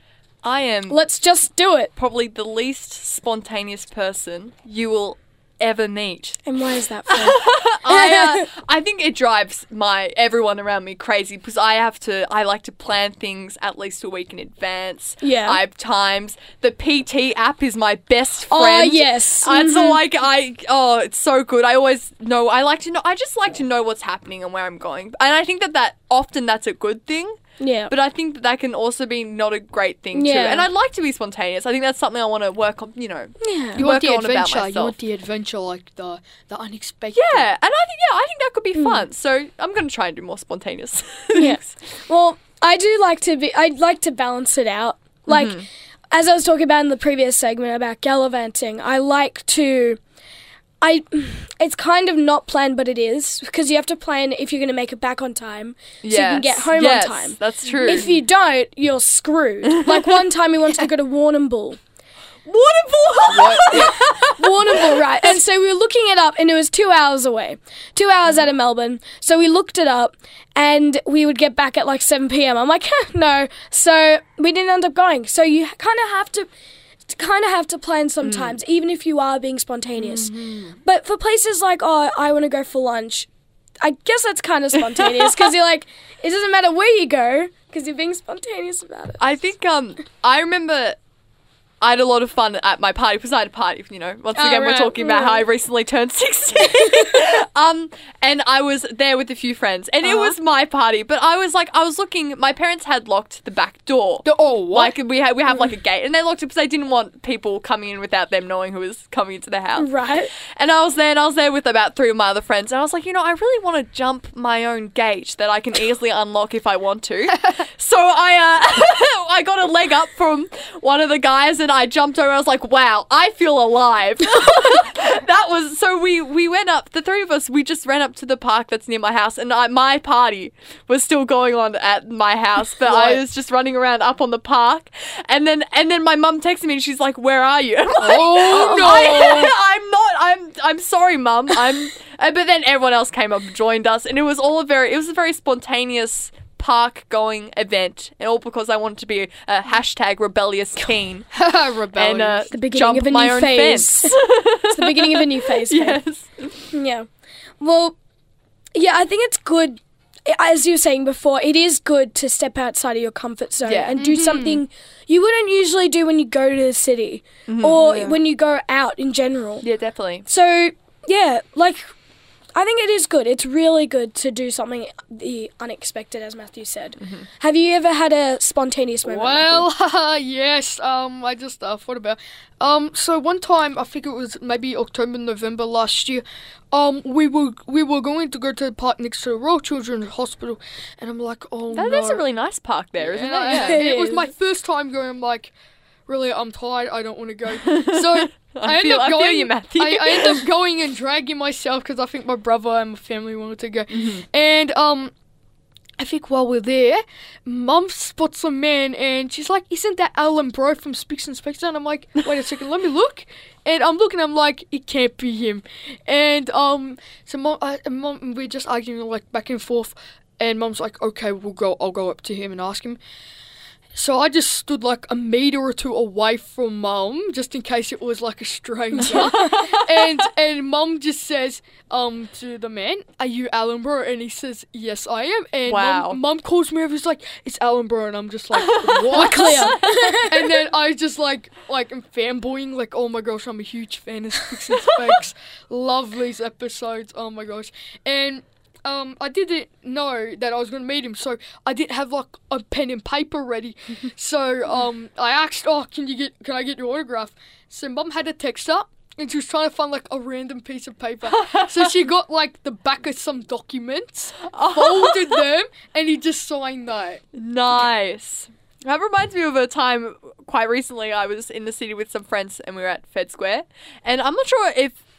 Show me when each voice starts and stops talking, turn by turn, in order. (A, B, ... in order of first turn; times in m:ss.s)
0:00.4-0:01.0 A
0:00.9-0:01.9 B
0:02.0-0:06.4 A
0:06.5-0:08.5 B
0:07.1-0:27.4 A
0:15.2-0:15.6 B
0:18.5-0:20.0 B
0:27.6-0:27.9 B
0:27.9-0:35.0 A
0:30.1-0:30.7 B
0:33.4-0:33.8 B
0:33.8-0:37.5 C
0:37.1-0:41.7 A
0:38.8-0:39.1 B
0:41.3-0:50.0 B
0:45.3-0:45.7 A
0:50.8-1:01.8 B
0:56.0-0:58.2 A
0:57.7-0:58.0 C
1:02.5-1:05.4 A
1:03.4-1:03.9 C
1:03.4-1:16.5 B
1:17.1-1:20.3 B
1:18.2-1:18.6 A
1:20.0-1:20.8 C
1:20.8-1:23.3 B
1:23.8-1:29.2 B
1:25.0-1:25.5 A
1:29.2-1:31.0 A
1:31.8-1:49.9 A
1:34.4-1:35.5 B
1:40.0-1:40.4 C
1:44.2-1:45.0 C
1:49.8-1:50.3 B
1:50.5-2:31.3 A
2:12.8-2:13.2 C
2:18.0-2:19.5 C
2:18.7-2:19.3 B
2:31.3-2:32.5 C
2:32.0-2:36.7 A
2:32.5-2:36.0 B
2:36.7-2:37.1 B
2:37.6-2:38.0 B
2:38.7-2:49.7 B
2:43.7-2:44.0 A
2:44.0-2:44.6 C
2:47.5-2:48.2 A
2:49.6-2:50.3 A
2:50.3-2:51.8 B
2:52.6-2:59.7 B
2:57.0-2:57.3 A
2:59.1-3:12.2 C
3:11.7-3:13.8 A
3:13.0-3:15.5 C
3:13.5-3:14.3 B
3:16.1-3:25.1 C
3:17.7-3:20.4 A
3:23.9-3:24.2 A
3:26.0-3:43.0 C
3:43.9-4:27.2 C
3:48.9-3:49.5 B
3:49.0-3:50.1 A
3:55.7-3:56.2 A
3:58.5-4:00.2 A
3:59.1-4:00.3 B
4:21.2-4:22.0 A
4:24.5-4:25.4 A
4:27.3-4:35.0 A